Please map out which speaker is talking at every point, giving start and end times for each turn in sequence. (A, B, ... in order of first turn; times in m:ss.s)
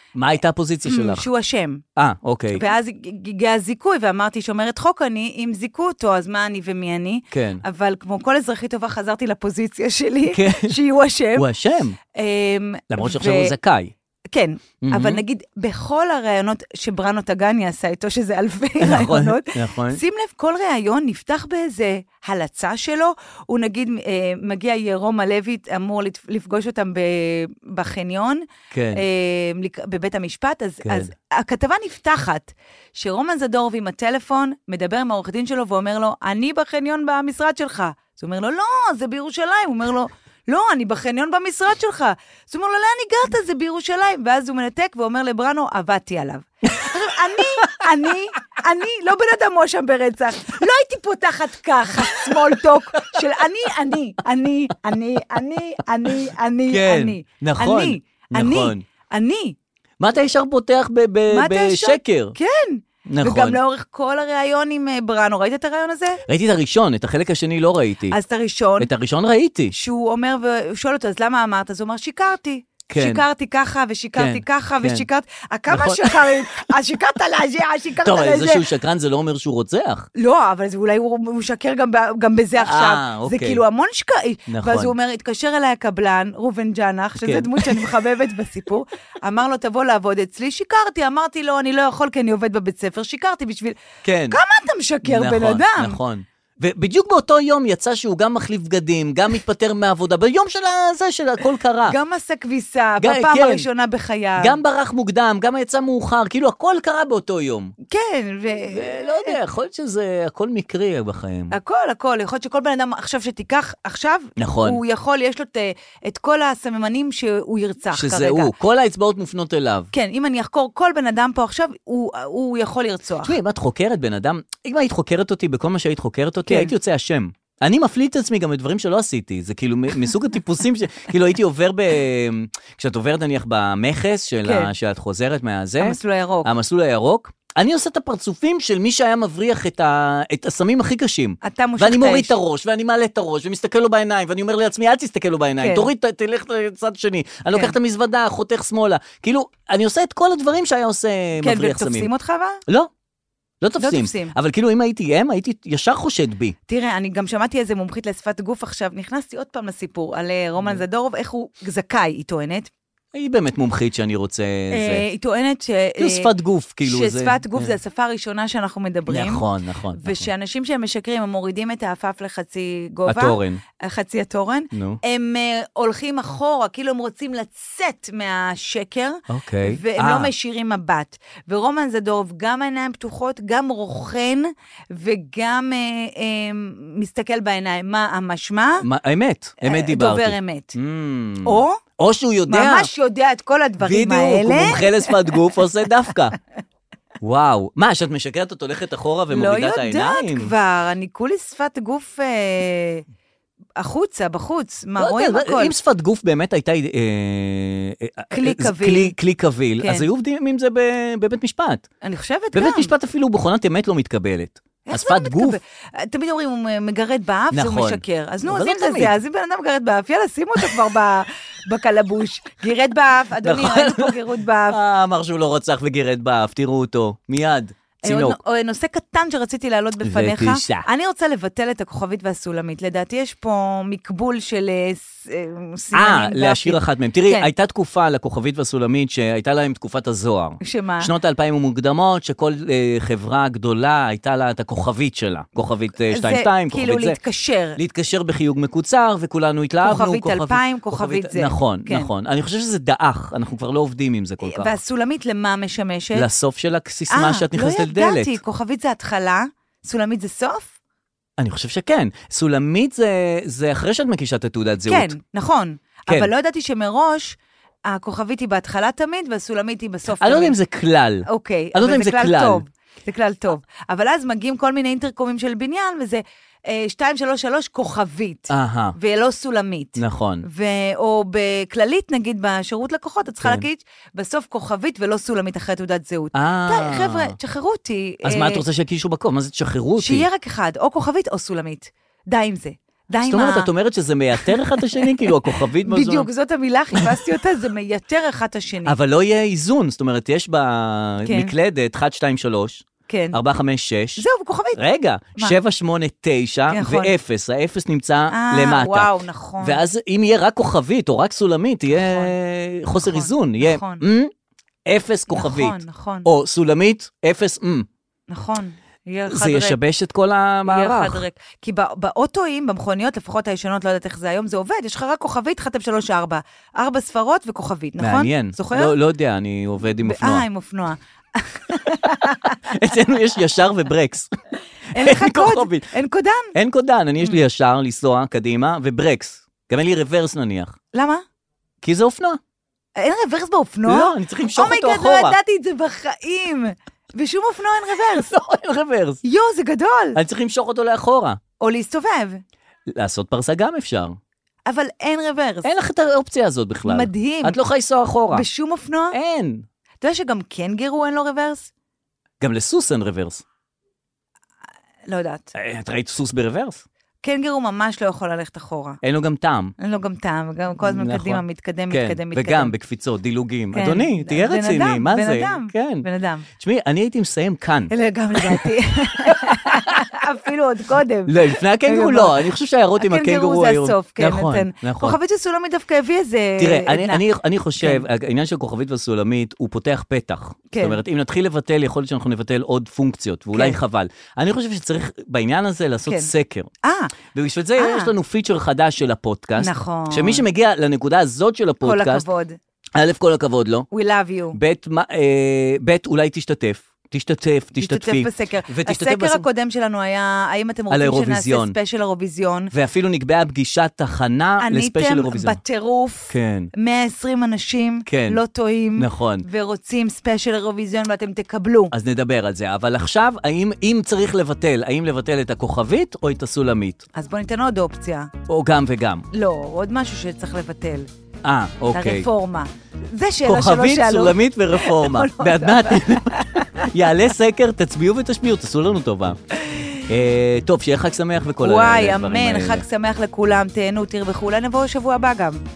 0:00.2-0:01.3 A
0:00.9-0:01.8 B
0:02.0-0:02.7 A
0:02.5-0:11.5 B
0:07.3-0:07.6 A
0:10.3-0:10.8 A
0:11.4-0:12.0 A
0:12.2-0:13.6 B
0:12.9-0:13.9 A
0:14.3-0:59.6 B
0:14.8-0:15.2 A
0:18.8-0:20.0 A
0:28.7-0:29.0 A
0:30.8-0:31.1 A
0:56.7-0:58.8 A
1:00.0-1:02.4 A
1:01.3-1:06.2 B
1:03.1-1:03.6 A
1:06.3-1:08.2 A
1:08.1-1:08.9 B
1:08.8-1:09.8 A
1:09.7-1:18.6 B
1:12.9-1:13.2 A
1:14.2-1:15.0 A
1:15.7-1:16.6 A
1:18.0-1:20.1 A
1:20.2-1:33.8 B
1:22.6-1:23.6 A
1:24.5-1:25.0 A
1:27.2-1:27.9 A
1:34.0-1:34.4 A
1:34.3-1:36.0 B
1:35.0-1:42.0 A
1:41.9-1:44.6 B
1:43.0-1:43.7 A
1:44.4-1:47.8 A
1:47.9-1:49.4 B
1:48.7-1:51.6 A
1:51.5-1:58.5 B
1:54.4-1:54.8 A
1:57.9-1:59.9 A
1:59.9-2:03.4 B
2:03.2-2:32.1 A
2:06.5-2:06.7 B
2:15.8-2:16.5 B
2:21.4-2:22.4 B
2:25.6-2:25.9 B
2:31.4-2:32.6 B
2:33.6-2:36.6 A
2:33.8-2:34.3 B
2:36.7-2:42.7 B
2:43.1-2:45.0 A
2:44.7-2:46.3 B
2:46.0-2:47.8 A
2:46.8-2:49.4 B
2:49.1-2:50.3 A
2:50.0-3:08.9 B
2:53.1-2:53.6 A
2:54.7-2:55.0 A
2:59.3-3:00.3 A
3:08.8-3:12.9 A
3:09.6-3:10.8 B
3:11.4-3:11.8 B
3:12.5-3:15.1 B
3:13.8-3:16.4 A
3:17.2-3:20.5 A
3:19.3-3:23.0 B
3:23.8-3:25.7 B
3:25.0-3:31.9 A
3:28.3-3:29.1 B
3:32.0-3:32.9 B
3:32.5-3:35.6 A
3:34.9-3:44.8 B
3:37.5-3:39.2 A
3:43.4-3:44.2 A
3:44.7-3:48.4 A
3:48.0-3:57.5 B
3:50.0-3:50.9 A
3:55.9-4:07.2 A
4:00.6-4:01.1 B
4:06.1-4:07.8 B
4:07.8-4:14.8 A
4:09.8-4:12.1 B
4:14.4-4:16.3 B
4:16.2-4:18.4 A
4:17.1-4:20.7 B
4:21.4-4:25.1 A
4:24.9-4:27.4 B
4:27.9-4:30.6 B
4:30.2-4:32.6 A
4:31.3-4:48.6 B
4:38.5-4:39.0 A
4:40.0-4:40.5 A
4:46.3-4:47.4 A
4:48.2-4:50.3 A
4:50.0-4:53.7 B
4:53.3-4:56.3 A
4:54.4-4:55.3 B
4:55.9-4:59.0 B
4:56.9-4:57.2 A
4:58.9-5:04.2 A
5:01.3-5:01.5 B
5:03.1-5:03.4 B
5:04.2-5:04.8 B
5:04.8-5:14.3 A
5:06.7-5:07.1 B
5:08.3-5:09.8 B
5:11.9-5:12.4 B
5:12.9-5:14.0 B
5:14.9-5:17.9 A
5:15.3-5:16.3 B
5:18.3-5:19.8 B
5:19.3-5:21.2 A
5:20.7-5:28.9 B
5:28.0-5:30.5 A
5:30.0-5:32.7 B
5:32.7-5:34.3 A
5:34.9-5:36.5 B
5:35.0-5:35.9 A
5:36.5-5:40.8 A
5:40.9-5:41.2 B
5:41.8-5:42.4 A
5:43.0-5:48.3 B
5:43.9-5:45.4 A
5:48.2-5:49.2 A
5:49.2-5:50.2 B
5:50.2-5:51.4 A
5:51.6-5:52.4 B
5:52.9-5:54.2 A
5:54.7-5:55.7 B
5:55.6-5:58.5 A
5:56.9-5:57.6 B
5:58.3-5:59.2 B
5:59.1-5:59.7 A
6:00.0-6:01.7 B
6:02.4-6:03.4 A
6:05.1-6:05.5 B
6:05.6-6:06.8 A
6:07.2-6:09.0 B
6:09.0-6:09.8 A
6:09.8-6:12.8 B
6:10.8-6:16.1 A
6:13.7-6:16.5 B
6:16.6-6:18.6 A
6:17.9-6:22.4 B
6:19.3-6:20.0 A
6:21.3-6:25.2 A
6:23.0-6:27.2 B
6:26.6-6:36.7 A
6:27.8-6:28.0 B
6:30.7-6:31.0 B
6:33.5-6:33.8 B
6:36.8-6:37.1 B
6:37.3-6:42.2 A
6:37.8-6:38.1 B
6:39.6-6:40.4 B
6:41.8-6:42.6 B
6:43.0-6:43.9 A
6:43.9-6:44.6 B
6:44.5-6:49.4 A
6:47.8-6:52.7 B
6:50.9-6:51.8 A
6:52.7-6:55.6 A
6:54.6-7:01.9 B
6:56.3-6:56.7 A
6:58.1-6:58.4 A
6:59.0-6:59.4 A
7:01.9-7:07.0 A
7:07.2-7:08.3 B
7:08.5-7:09.3 A
7:09.3-7:11.1 B
7:11.4-7:12.3 A
7:11.9-7:16.9 B
7:13.5-7:19.4 A
7:19.7-7:20.0 B
7:20.0-7:22.8 A
7:21.6-7:25.6 B